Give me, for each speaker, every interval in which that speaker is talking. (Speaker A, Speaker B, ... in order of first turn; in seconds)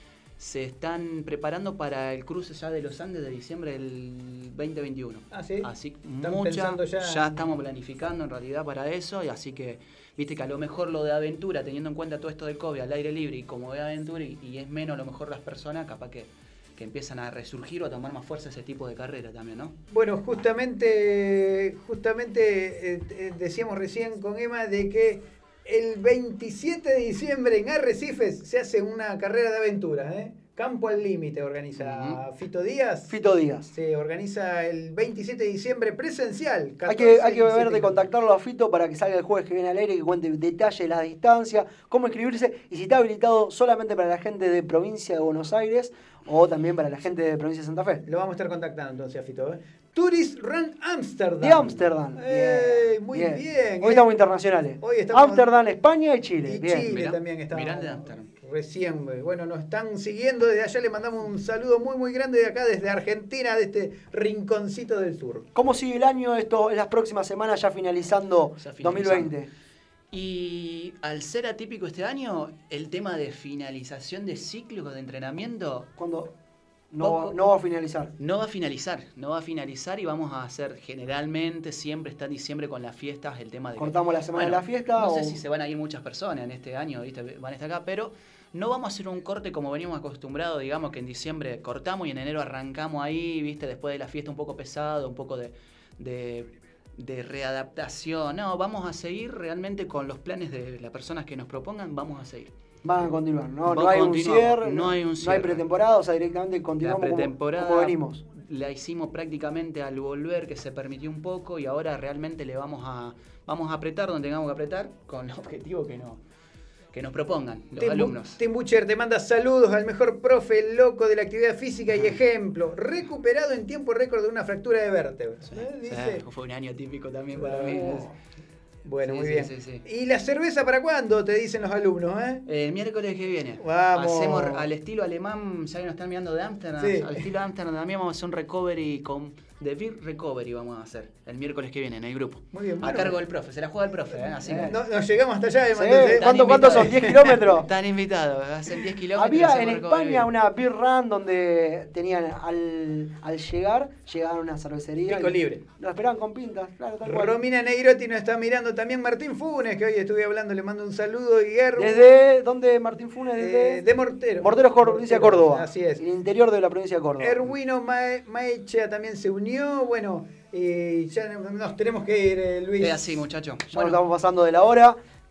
Speaker A: 0.4-19.7, 31.8-32.2, 56.9-58.3, 68.6-69.3, 70.1-75.9, 77.0-77.3, 78.2-102.5, 103.6-105.6, 106.8-116.2, 116.9-118.4, 125.5-128.1, 129.0-129.8, 132.4-144.8, 146.0-150.3, 172.8-174.0
Speaker B: 5.3-5.7, 6.2-7.3, 19.9-33.1, 33.7-38.0, 48.0-54.2, 54.8-55.5, 56.4-65.5, 117.8-126.2, 127.3-128.1, 128.8-132.4, 133.6-134.7, 136.8-137.2, 142.5-143.2, 144.3-147.4, 155.1-155.6, 157.0-162.1, 163.4-166.0, 167.2-173.2
Speaker C: 33.1-33.7, 36.9-48.0, 51.4-56.9, 65.5-69.5, 76.0-76.3, 76.9-78.1, 83.8-85.4, 102.8-108.2, 144.5-144.8, 145.7-147.7, 149.1-157.3, 161.8-163.8, 164.4-167.4, 173.7-175.0